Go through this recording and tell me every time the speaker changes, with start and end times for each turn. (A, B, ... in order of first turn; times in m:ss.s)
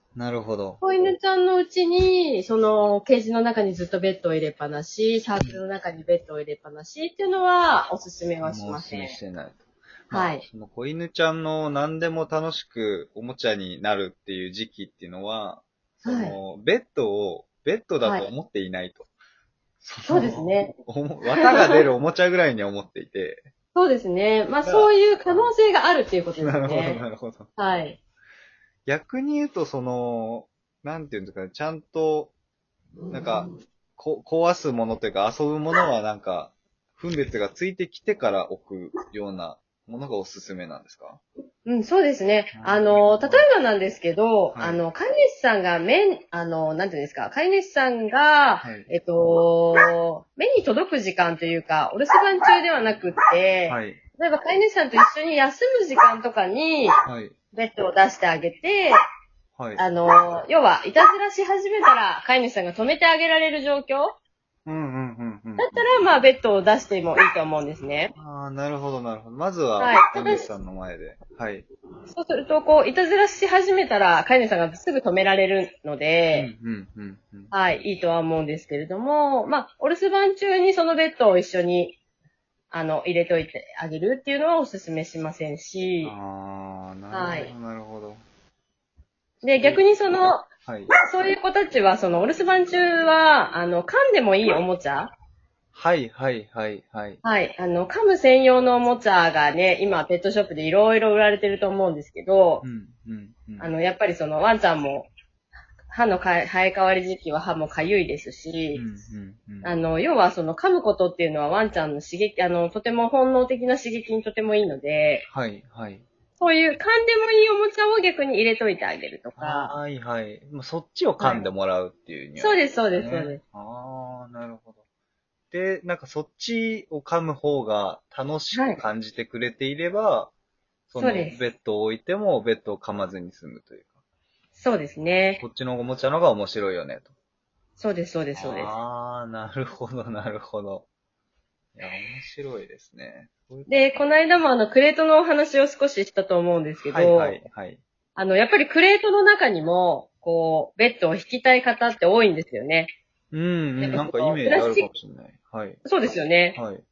0:00.1-0:00.8 A
0:00.8-0:09.2 B
0:08.4-0:19.1 A
0:10.1-0:10.4 B
0:16.0-0:16.4 B
0:18.0-0:18.3 B
0:19.8-0:23.5 A
0:20.1-0:20.7 B
0:21.3-0:21.8 B
0:23.7-0:27.0 B
0:24.6-0:25.5 A
0:26.4-0:27.5 A
0:27.6-0:28.0 B
0:28.8-0:32.3 A
0:33.0-0:33.5 B
0:33.1-0:41.2 A
0:41.6-0:57.0 B
0:42.5-0:43.4 A
0:44.5-0:44.8 A
0:48.6-0:48.9 A
0:53.7-0:54.0 A
0:57.0-0:57.3 A
0:57.5-0:59.0 B
0:59.6-0:59.8 A
0:59.8-1:04.2 B
1:04.6-1:05.9 A
1:05.6-1:08.1 B
1:08.2-1:11.6 A
1:09.8-1:10.5 B
1:12.1-1:16.5 B
1:16.3-1:17.5 A
1:17.5-1:22.0 B
1:22.7-1:26.1 B
1:26.0-1:28.2 A
1:27.1-1:27.5 B
1:29.4-1:35.1 B
1:29.4-1:29.8 A
1:30.6-1:30.9 A
1:35.7-1:37.2 A
1:37.2-1:42.6 B
1:42.6-1:43.7 A
1:43.6-1:45.1 B
1:45.9-1:48.8 B
1:48.7-1:49.7 A
1:49.6-1:55.2 B
1:55.3-1:56.0 A
1:56.4-1:59.8 B
1:59.4-2:04.8 A
2:01.2-2:01.4 B
2:02.4-2:03.4 B
2:05.5-2:10.3 A
2:08.5-2:08.8 B
2:10.9-2:13.9 A
2:11.0-2:11.4 B
2:14.6-2:15.4 B
2:15.4-2:17.1 A
2:17.8-2:18.7 B
2:18.3-2:20.8 A
2:21.8-2:23.8 A
2:23.7-2:27.4 B
2:26.8-2:27.8 A
2:28.2-2:32.9 B
2:33.3-2:35.8 A
2:33.8-2:34.9 B
2:35.8-2:36.6 B
2:36.5-2:36.8 A